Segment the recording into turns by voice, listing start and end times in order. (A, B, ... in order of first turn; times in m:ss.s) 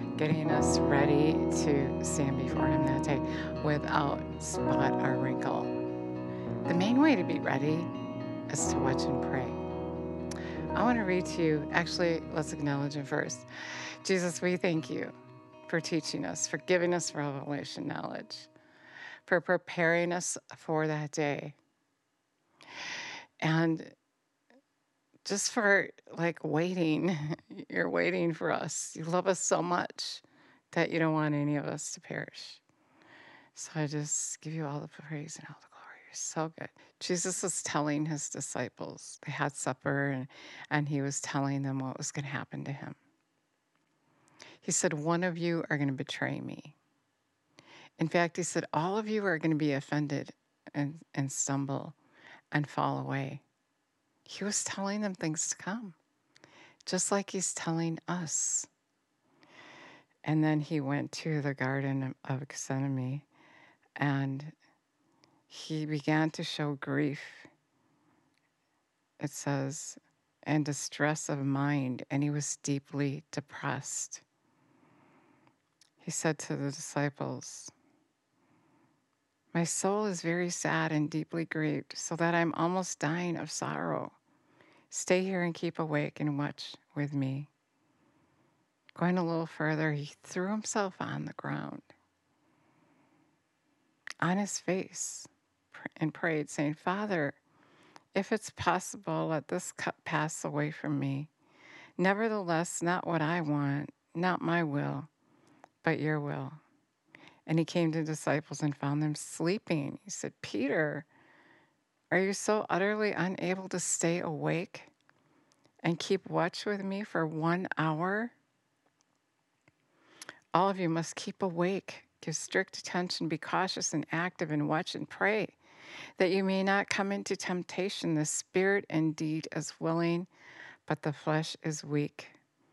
0:00.2-0:05.7 A
0:06.7-0:07.9 A
0:08.5-0:09.6 A
0:10.7-0:15.1 A
0:15.7-0:18.5 A
0:19.2-0:21.6 A
0:23.4-0:23.9 A
0:25.2-0:32.6 A
0:33.5-0:43.0 A
0:44.6-0:46.8 A
0:48.0-0:52.0 A
0:52.5-0:53.4 A
0:54.2-0:56.0 A
0:56.8-0:58.7 A
1:00.2-1:03.3 A
1:04.0-1:04.5 A
1:05.5-1:07.5 A
1:09.2-1:14.2 A
1:16.0-1:17.7 A
1:19.5-1:24.2 A
1:24.9-1:27.5 A
1:29.0-1:31.9 A
1:34.2-1:37.4 A
1:38.1-1:41.3 A
1:42.0-1:45.1 A
1:45.8-1:46.6 A
1:47.5-1:51.1 A
1:52.1-1:54.9 A
1:55.8-1:58.3 A
2:00.5-2:05.6 A
2:06.2-2:10.3 A
2:10.8-2:12.4 A